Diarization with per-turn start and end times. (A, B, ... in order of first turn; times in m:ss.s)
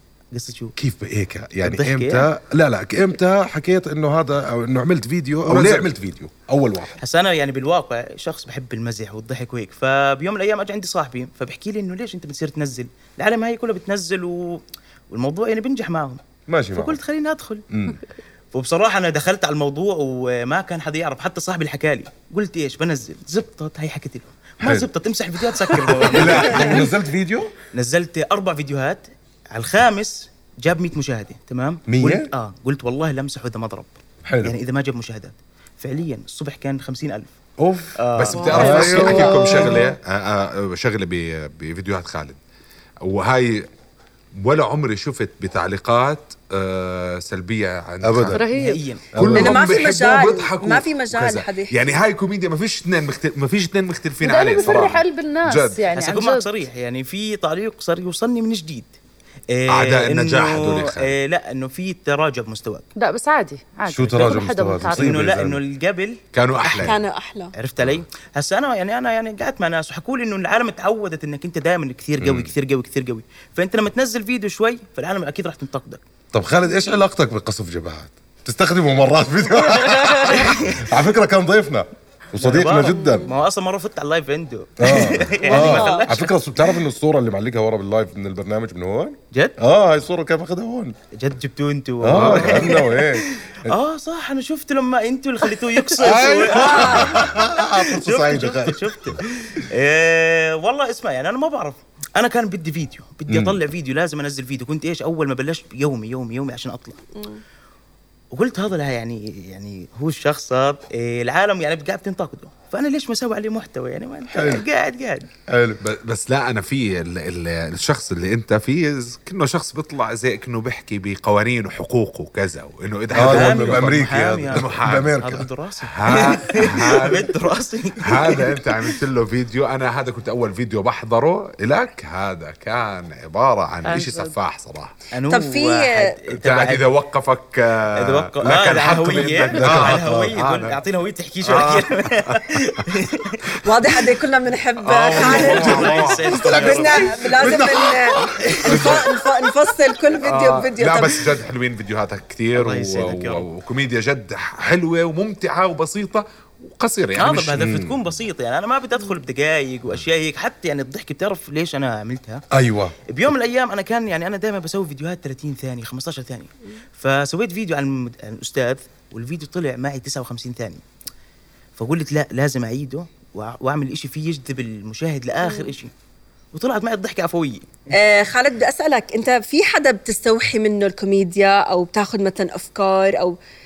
0:00.3-0:00.7 A
0:00.8-0:07.0 B
0:01.6-0:02.3 A
0:05.5-0:05.9 C
0:07.0-0:16.2 A
0:16.5-0:17.0 B
0:16.7-0:17.6 A
0:17.7-0:18.0 B
0:18.5-0:26.9 A
0:24.6-0:24.9 B
0:25.7-0:27.5 B
0:27.7-0:37.4 A
0:31.9-0:32.3 B
0:34.2-0:34.5 B
0:37.6-0:38.0 B
0:38.0-0:39.8 A
0:38.1-0:42.4 C
0:38.5-0:39.7 B
0:38.5-0:39.9 D
0:43.0-0:43.7 C
0:44.3-0:48.4 C
0:48.0-0:48.4 B
0:48.3-0:48.8 D
0:48.5-0:49.1 A
0:49.1-0:49.6 B
0:49.1-0:55.8 C
0:49.3-0:52.0 E
0:54.2-0:56.5 D
0:55.9-0:59.0 A
0:59.5-1:02.8 A
0:59.7-1:01.1 C
1:03.0-1:05.2 D
1:03.9-1:05.6 B
1:04.9-1:06.2 A
1:06.3-1:07.0 C
1:06.6-1:07.5 E
1:07.5-1:16.0 A
1:12.2-1:12.5 B
1:16.3-1:23.3 B
1:20.2-1:20.6 A
1:22.4-1:26.3 A
1:22.8-1:23.4 E
1:24.8-1:31.0 B
1:25.4-1:26.1 E
1:29.3-1:29.6 A
1:31.1-1:47.0 A
1:32.0-1:33.8 B
1:32.1-1:32.6 C
1:36.0-1:38.8 B
1:36.6-1:37.2 E
1:43.3-1:43.6 B
1:48.3-1:55.3 A
1:54.3-1:54.6 B
1:55.5-1:55.8 B
1:55.8-2:05.2 C
2:03.1-2:05.4 B
2:03.1-2:08.9 A
2:05.8-2:07.3 C
2:08.0-2:14.9 C
2:13.8-2:14.4 D
2:15.1-2:16.9 A
2:15.3-2:16.2 E
2:16.3-2:20.8 C
2:18.0-2:23.3 A
2:19.5-2:20.4 B
2:21.4-2:22.3 C
2:23.6-2:31.4 E
2:24.8-2:27.4 A
2:24.9-2:26.3 C
2:26.4-2:29.1 B
2:30.2-2:37.7 C
2:32.5-2:33.4 A
2:37.2-2:42.4 A
2:37.6-2:38.0 B
2:42.5-2:42.9 B
2:43.1-2:50.8 A
2:51.8-2:55.9 A
2:55.4-2:55.7 E
2:56.5-2:57.8 A
2:57.9-3:03.4 E